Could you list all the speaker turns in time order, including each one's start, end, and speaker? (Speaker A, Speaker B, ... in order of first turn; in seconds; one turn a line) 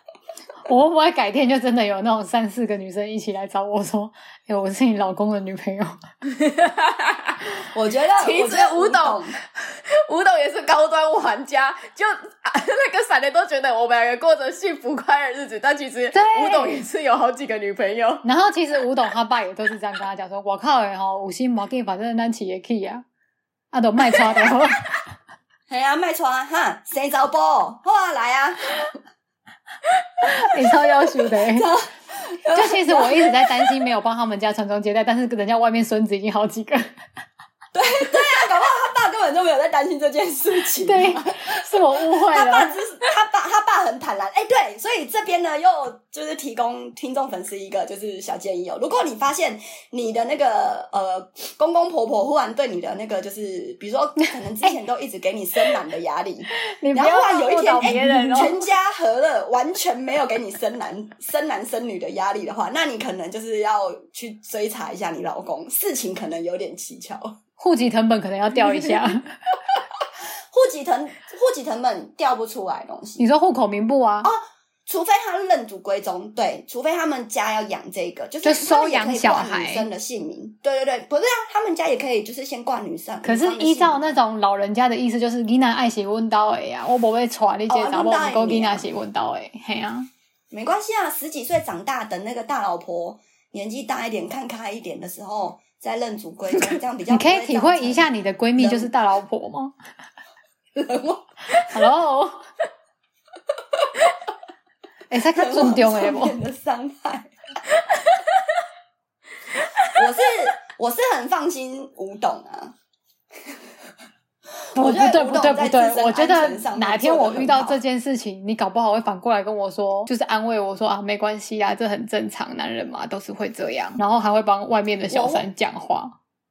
Speaker A: 0.7-6.0
Speaker B: 6.2-7.5
Speaker C: 7.7-9.3
Speaker B: 8.2-18.2
Speaker A: 16.1-16.8
Speaker A: 18.2-23.0
Speaker A: 23.7-24.9
Speaker C: 25.7-28.9
Speaker A: 30.2-31.7
Speaker C: 31.3-33.8
Speaker A: 32.5-36.9
Speaker C: 37.7-67.4
Speaker A: 40.8-42.7
Speaker A: 56.6-58.6
Speaker A: 67.6-69.2
Speaker C: 70.5-73.2
Speaker A: 73.2-74.3
Speaker C: 74.2-84.1
Speaker A: 78.4-79.8
Speaker A: 83.2-90.1
Speaker C: 87.7-88.8
Speaker C: 90.5-98.9
Speaker A: 97.1-99.7
Speaker C: 100.7-101.3
Speaker A: 101.6-102.4
Speaker A: 105.1-106.4
Speaker C: 105.3-107.3
Speaker B: 107.9-108.2
Speaker B: 109.6-109.9
Speaker C: 109.9-112.7
Speaker C: 114.7-117.8
Speaker A: 114.8-126.2
Speaker C: 125.1-125.5